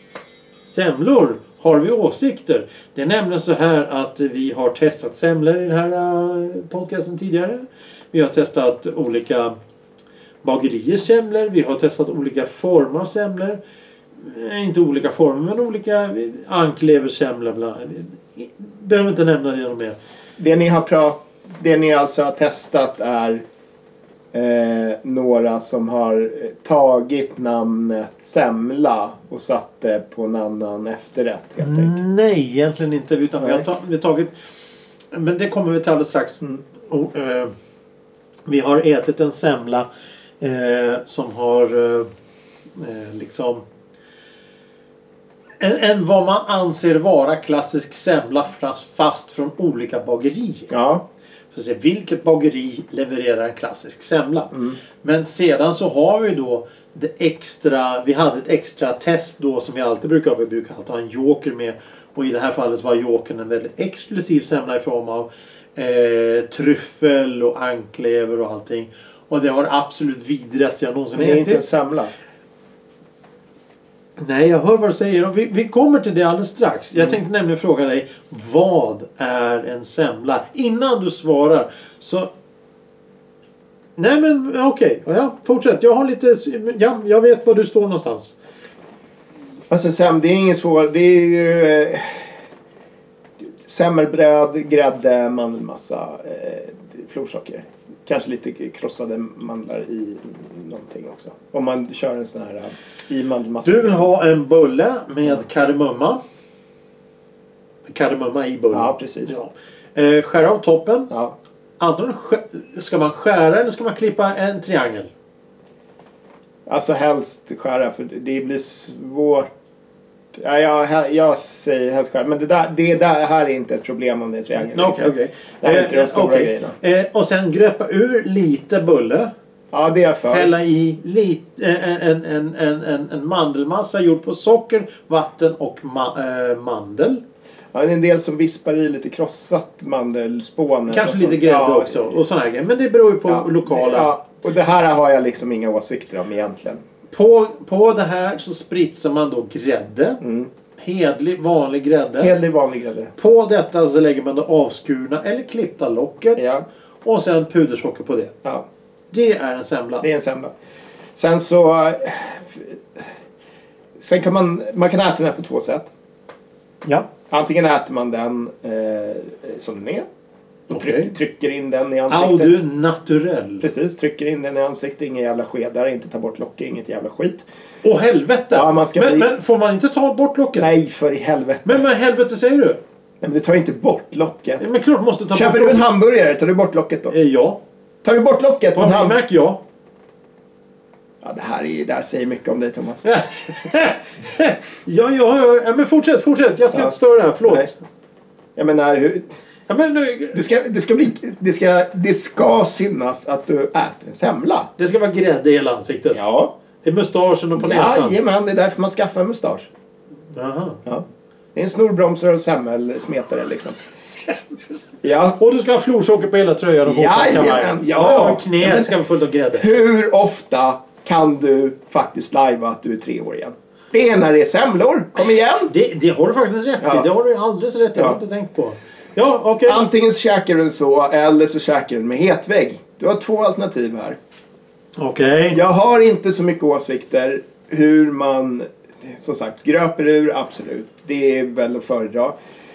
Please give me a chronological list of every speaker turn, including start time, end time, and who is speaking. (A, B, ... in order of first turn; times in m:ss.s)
0:00.6-0:09.5 A
0:10.4-0:13.6 A
0:14.2-0:20.0 A
0:20.4-0:23.4 B
0:24.3-0:32.0 B
0:31.6-0:34.3 A
0:33.4-0:33.6 B
0:35.1-0:37.5 A
0:38.4-0:39.9 A
0:40.4-0:42.1 A
0:42.8-0:43.6 A
0:45.6-0:50.7 A
0:50.7-0:51.0 B
0:51.5-1:11.6 A
0:54.5-0:54.8 B
1:11.1-1:12.1 B
1:14.2-1:22.3 A
1:24.0-1:28.3 A
1:29.7-1:32.3 B
1:33.6-1:44.1 B
1:43.6-1:46.2 A
1:47.8-1:51.1 A
1:48.7-1:49.4 B
1:51.1-1:51.3 B
1:51.8-1:55.1 A
1:56.7-1:59.5 B
2:00.3-2:05.1 B
2:04.6-2:09.3 A
2:05.6-2:06.8 B
2:09.7-2:10.5 B
2:10.3-2:17.2 A
2:17.7-2:22.1 B
2:20.9-2:24.1 A
2:23.3-2:26.8 B
2:27.1-2:30.2 A
2:30.2-2:30.5 B
2:30.8-2:32.3 A
2:32.2-2:33.1 B
2:33.2-2:36.5 A
2:36.4-2:36.6 B
2:37.0-2:38.3 A
2:39.1-2:40.0 A
2:40.0-2:40.5 B
2:41.2-2:43.0 B
2:44.0-2:45.9 B
2:46.8-2:47.1 A
2:47.3-2:50.0 B
2:50.7-2:51.1 A
2:50.7-2:52.5 B
2:52.1-2:53.6 A
2:53.6-2:57.4 B
2:57.8-3:00.7 A
2:58.5-2:59.3 B
3:00.6-3:01.8 B
3:01.6-3:02.8 A
3:03.2-3:04.6 B
3:04.6-3:05.9 A
3:05.3-3:07.1 B
3:07.1-3:07.6 A
3:08.0-3:09.2 B
3:08.8-3:09.6 A
3:11.2-3:13.1 B
3:13.0-3:17.7 A
3:18.6-3:19.2 B
3:19.7-3:20.4 A
3:20.3-3:24.7 B
3:24.8-3:26.2 A
3:26.1-3:26.5 B
3:26.8-3:28.2 A
3:27.6-3:29.7 B
3:30.3-3:30.8 A
3:30.8-3:34.0 B
3:34.0-3:39.7 A
3:35.0-3:35.4 B
3:36.8-3:38.9 B
3:39.6-3:45.7 B
3:45.7-3:49.8 A
3:46.8-3:47.0 B
3:49.6-3:54.2 B
3:55.0-3:55.6 A
3:55.5-4:02.3 B